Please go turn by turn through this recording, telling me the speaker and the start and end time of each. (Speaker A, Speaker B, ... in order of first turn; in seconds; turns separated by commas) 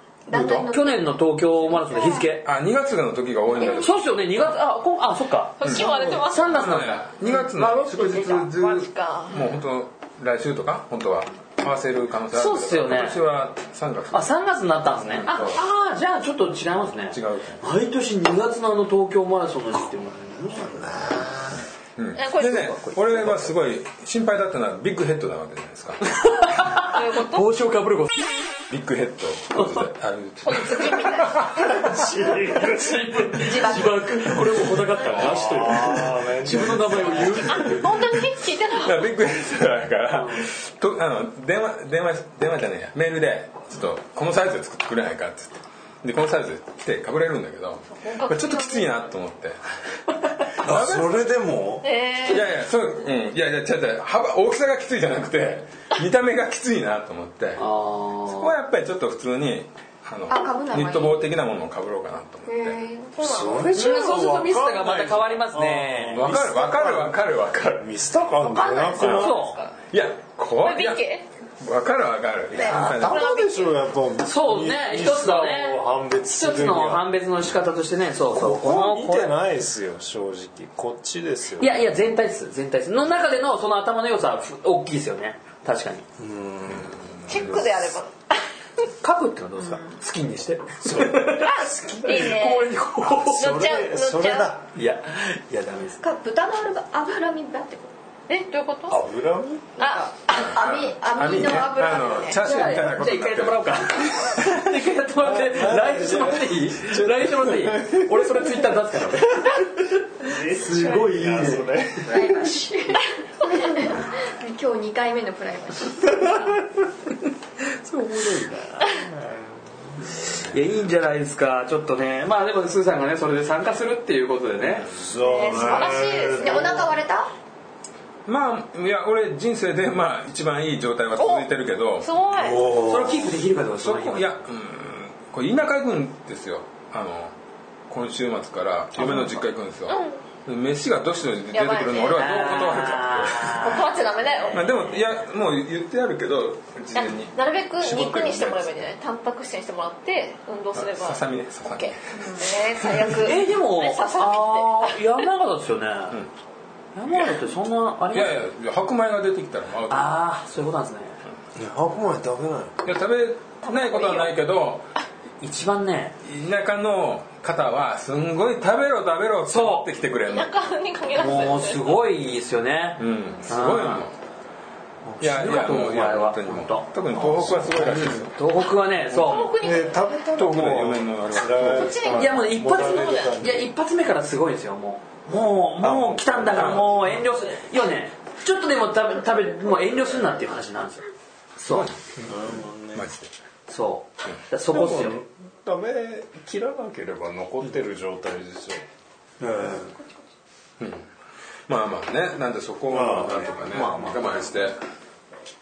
Speaker A: 0.3-1.1, Speaker B: 0.3-2.5, Speaker C: 1.9-2.2, Speaker D: 2.4-3.9, Speaker B: 3.6-7.4, Speaker C: 5.6-6.7, Speaker D: 5.6-14.3, Speaker C: 7.5-9.6, Speaker B: 12.3-13.2, Speaker B: 14.1-21.2, Speaker D: 15.0-15.6, Speaker D: 17.1-17.6, Speaker E: 20.5-21.6, Speaker D: 22.0-26.2, Speaker C: 22.1-22.7, Speaker B: 22.6-23.6, Speaker B: 26.1-28.4, Speaker C: 26.8-27.5, Speaker D: 28.7-31.7, Speaker B: 29.5-29.8, Speaker C: 30.4-31.5, Speaker E: 31.6-33.7, Speaker B: 32.2-37.8, Speaker A: 33.4-34.6, Speaker D: 34.9-36.0, Speaker E: 35.1-37.6, Speaker C: 37.2-39.1, Speaker D: 37.5-38.2, Speaker D: 38.7-49.6, Speaker B: 40.1-40.4, Speaker C: 48.0-48.9, Speaker D: 50.5-51.3, Speaker E: 50.6-51.9, Speaker C: 51.8-52.5, Speaker D: 52.2-57.6, Speaker B: 57.6-58.5, Speaker D: 58.3-62.8, Speaker A: 60.3-61.3, Speaker A: 62.5-63.0, Speaker C: 62.8-63.8, Speaker E: 63.2-67.2, Speaker B: 63.7-66.3, Speaker D: 66.1-67.9, Speaker E: 67.8-69.5, Speaker C: 68.4-69.8, Speaker B: 69.0-69.6, Speaker D: 69.0-69.3, Speaker D: 69.9-71.0, Speaker C: 70.6-71.3, Speaker D: 71.6-73.3, Speaker E: 72.5-77.1, Speaker C: 72.5-73.8, Speaker B: 74.2-79.3, Speaker E: 78.3-81.8, Speaker B: 81.6-86.1, Speaker E: 86.2-87.5, Speaker D: 86.8-87.6, Speaker C: 87.3-88.4, Speaker B: 89.0-93.6, Speaker A: 89.6-90.0, Speaker E: 90.8-92.4, Speaker C: 91.4-92.7, Speaker E: 93.0-94.7, Speaker C: 93.3-94.5, Speaker B: 94.7-96.0, Speaker A: 96.0-97.9, Speaker C: 98.3-99.0, Speaker E: 98.9-99.7, Speaker C: 99.8-100.2, Speaker A: 99.8-102.8, Speaker D: 100.3-104.5, Speaker B: 102.3-111.7, Speaker E: 105.2-108.7, Speaker E: 110.2-112.5, Speaker A: 112.0-116.5, Speaker B: 117.6-119.0, Speaker E: 118.8-120.1, Speaker B: 120.2-124.9, Speaker E: 124.9-126.9, Speaker A: 125.2-127.3, Speaker C: 125.2-126.9, Speaker D: 128.3-132.1, Speaker C: 131.2-131.5, Speaker C: 132.0-132.8, Speaker E: 132.4-133.3, Speaker B: 132.7-134.3, Speaker D: 133.8-137.3, Speaker D: 137.9-144.0, Speaker C: 139.9-140.2, Speaker C: 141.5-142.5, Speaker B: 142.1-145.0, Speaker C: 143.5-144.8, Speaker D: 144.5-148.9, Speaker C: 146.9-155.0, Speaker D: 150.8-153.2, Speaker B: 153.2-156.2, Speaker B: 157.0-158.4, Speaker D: 158.1-160.2, Speaker B: 159.9-161.2, Speaker E: 161.6-162.8, Speaker D: 162.8-164.9, Speaker C: 163.6-164.3, Speaker B: 165.4-166.2, Speaker D: 166.2-170.5, Speaker B: 169.5-169.9, Speaker C: 170.3-172.0, Speaker B: 171.1-174.1, Speaker D: 173.0-174.2, Speaker B: 175.1-179.6, Speaker D: 175.2-178.4, Speaker E: 177.2-178.0, Speaker D: 179.1-179.4, Speaker C: 179.2-180.0, Speaker E: 179.6-183.7, Speaker D: 180.3-182.3, Speaker C: 181.8-183.3, Speaker B: 182.0-191.1, Speaker E: 185.8-186.8, Speaker D: 186.5-187.0, Speaker B: 191.6-191.9, Speaker E: 192.2-193.1, Speaker D: 192.9-193.3, Speaker B: 193.7-195.2, Speaker E: 194.7-198.8, Speaker B: 199.4-199.9, Speaker D: 200.8-201.1, Speaker D: 201.7-204.8, Speaker E: 202.9-203.9, Speaker B: 203.7-204.2